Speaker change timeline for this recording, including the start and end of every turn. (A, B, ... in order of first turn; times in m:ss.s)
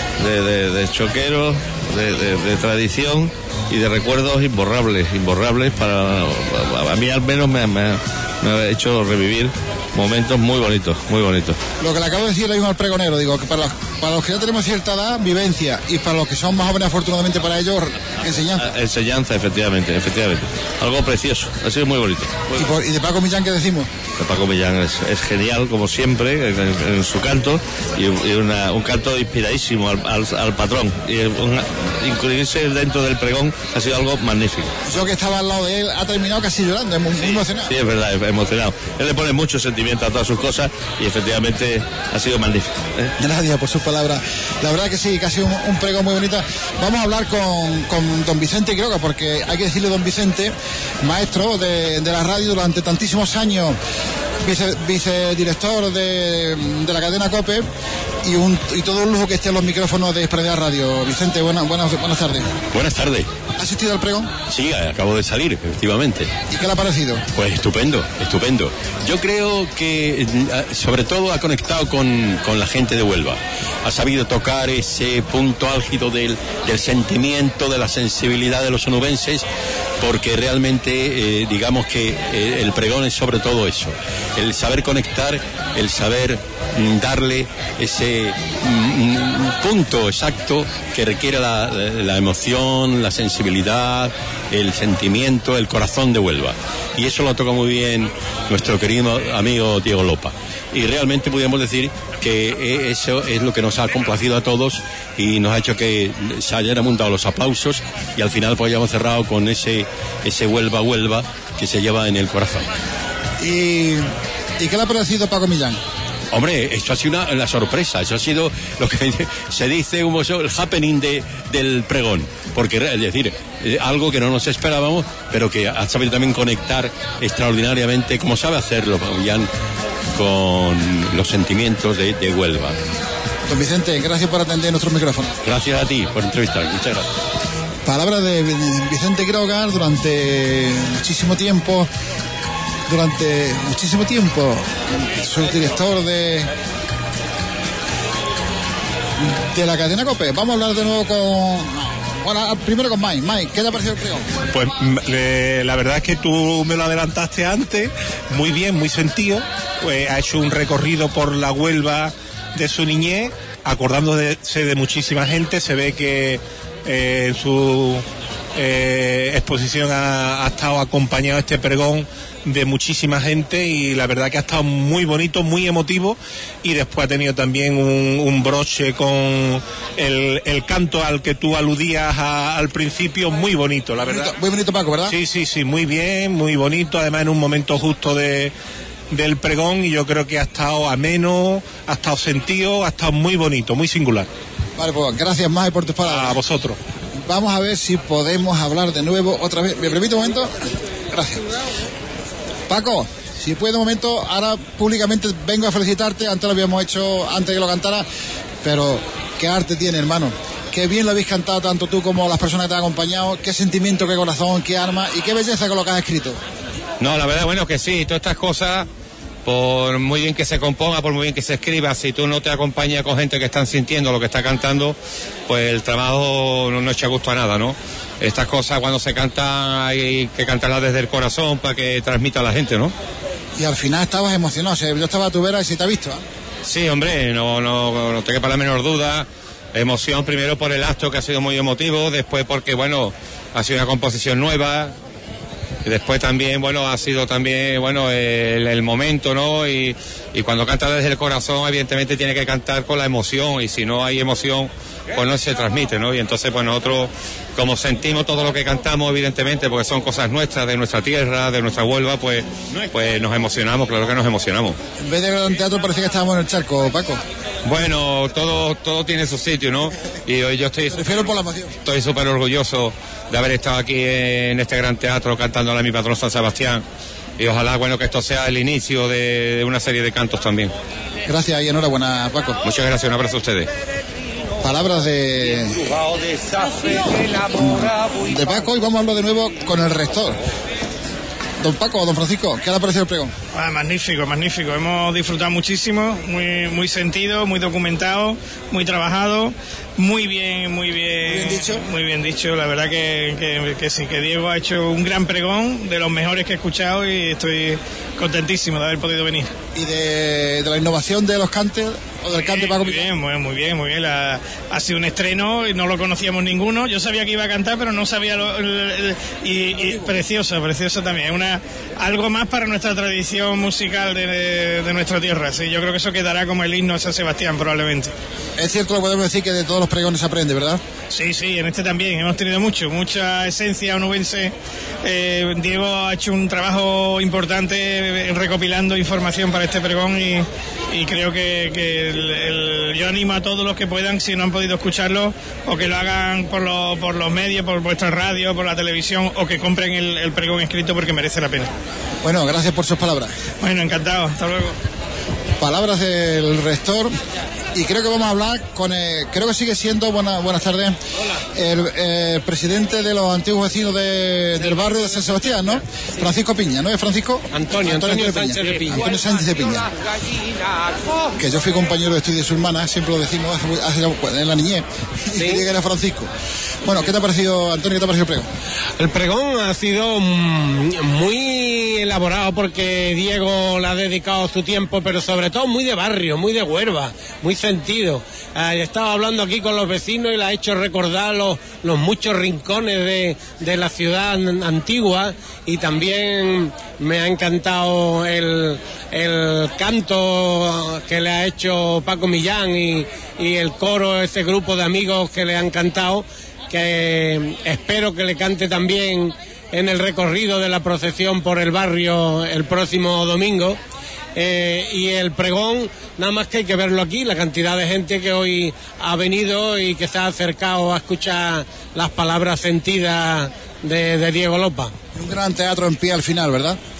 0:00.2-0:11.6 A
0:11.8-0:18.7 B
0:18.6-0:22.5 A
0:22.6-0:23.9 B
0:24.2-0:34.7 A
0:34.9-0:37.7 B
0:37.6-0:43.1 A
0:43.2-0:53.8 B
0:54.4-0:57.7 B
0:58.2-1:02.5 B
1:02.7-1:03.3 C
1:03.6-1:04.3 B
1:04.5-1:06.3 C
1:06.5-1:07.2 B
1:07.3-1:19.4 C
1:20.0-1:52.7 C
1:53.4-1:55.8 B
1:56.3-2:09.5 C
2:10.1-2:12.8 C
2:13.5-2:15.4 B
2:15.4-2:17.1 C
2:17.8-2:21.9 B
2:22.9-2:26.5 B
2:29.2-2:34.3 B
2:34.5-3:04.3 D
3:04.1-3:05.2 B
3:05.1-3:08.5 D
3:09.1-3:14.3 D
3:14.8-3:16.4 B
3:16.0-3:16.8 D
3:17.2-3:20.6 B
3:21.1-3:21.5 B
3:22.7-3:28.1 B
3:28.6-3:36.4 B
3:37.0-3:38.9 E
3:39.4-3:52.9 E
3:53.6-3:56.2 B
3:56.6-4:04.9 E
4:05.8-4:24.8 E
4:25.0-4:27.2 B
4:27.6-4:31.1 E
4:30.9-4:31.8 B
4:31.8-4:36.8 E
4:37.4-4:40.7 E
4:41.3-4:42.6 B
4:42.6-4:43.7 E
4:44.6-4:45.9 B
4:47.3-4:50.4 B
4:51.6-4:53.4 B
4:53.5-5:09.5 F
5:01.3-5:01.8 B
5:09.7-5:13.1 B
5:12.3-5:28.1 F
5:19.8-5:20.1 B
5:28.6-5:30.8 B
5:31.1-5:51.7 F
5:52.2-5:53.3 B
5:53.6-5:54.8 F
5:55.6-5:57.1 B
5:57.7-6:01.0 B
6:01.5-6:09.9 B
6:07.5-6:09.0 G
6:11.4-6:16.3 B
6:15.3-6:15.7 G
6:16.8-6:18.5 B
6:19.0-6:53.8 G
6:54.4-7:04.9 G
7:05.2-7:06.8 B